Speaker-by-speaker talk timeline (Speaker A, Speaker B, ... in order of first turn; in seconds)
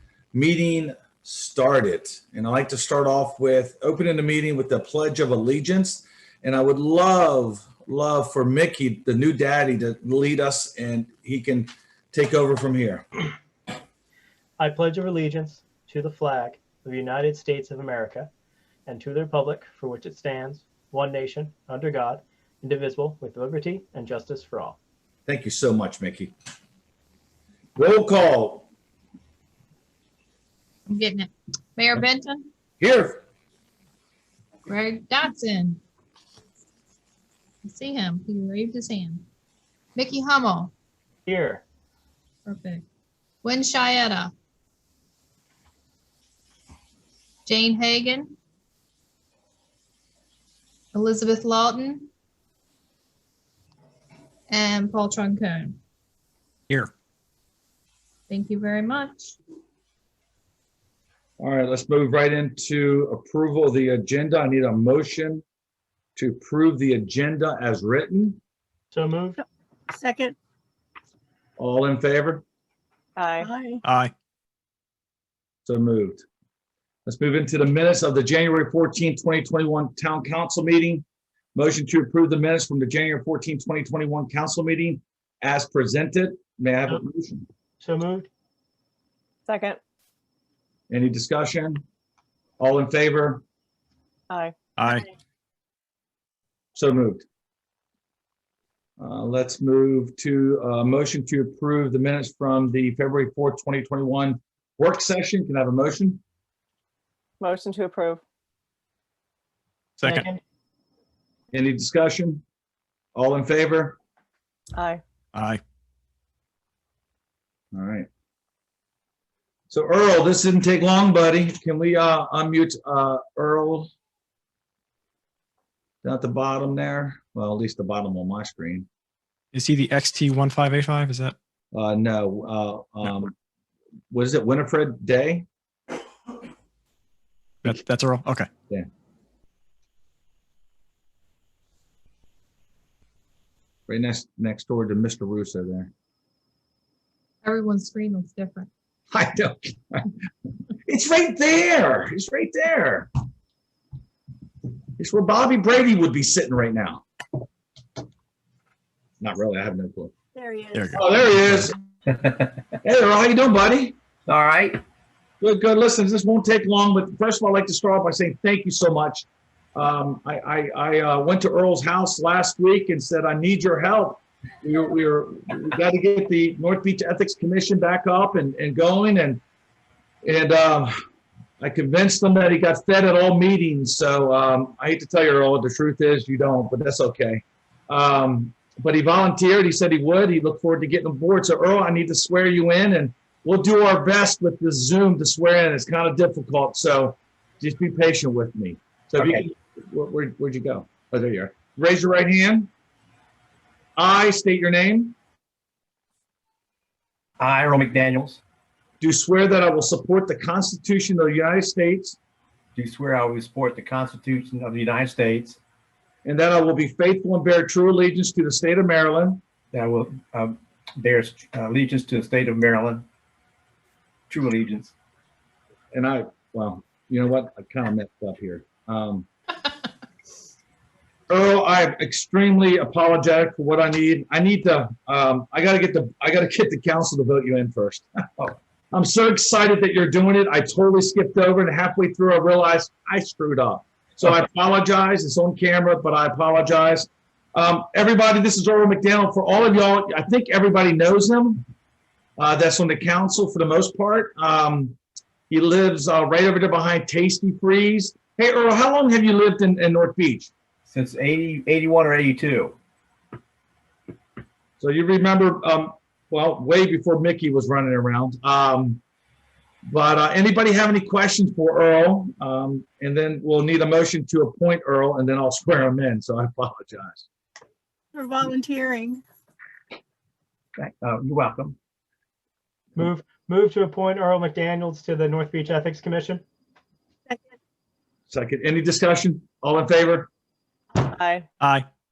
Speaker A: 0.3-13.1, 25.3-26.3, 27.8-28.7, 32.8-33.2, 61.4-65.4, 66.2-68.4, 71.6-72.4, 75.7-76.2, 77.1-81.0, 81.5-87.5, 90.9-91.8, 92.6-93.4, 96.8-97.2, 99.0-106.2, 111.5-112.4, 113.2-114.0, 117.7-118.1, 119.7-123.9, 126.0-128.9, 131.7-133.3, 134.1-135.5, 143.9-145.9, 149.1-150.1, 150.9-153.1, 155.0-157.0, 159.2-160.1, 160.9-161.7, 162.8-164.0, 165.4-179.4, 180.2-180.9, 181.6-202.7, 204.0-205.2, 209.0-212.2, 216.2-219.4, 225.9-229.3, 231.3-238.1, 238.9-251.6, 252.4-255.0, 255.5-260.5, 264.8-269.0, 269.9-277.3, 288.3-290.3
Speaker B: 14.6-18.3, 18.9-24.8, 41.3-41.6, 68.9-69.4, 87.8-88.3, 110.1-110.4, 283.0-286.4
Speaker C: 30.9-32.5, 34.7-35.8, 37.6-39.2, 40.0-40.7, 42.5-42.8, 43.4-44.3, 47.5-48.4, 50.9-52.1, 54.5-55.8, 58.3-59.4, 147.4-148.7
Speaker D: 69.9-70.3, 73.4-73.8, 160.3-160.8, 278.2-279.2
Speaker E: 73.2-73.5, 89.5-89.8, 94.3-94.5, 107.4-108.2, 114.8-115.0, 291.0-291.4
Speaker F: 73.8-74.1, 94.8-95.1, 110.0-110.3, 115.3-115.6, 129.5-131.3, 137.6-138.5, 160.7-161.7, 291.6-291.9
Speaker G: 162.1-162.4, 164.3-164.8, 207.4-208.4, 212.8-215.6, 219.7-223.1, 224.3-224.9, 260.9-262.7, 280.8-281.8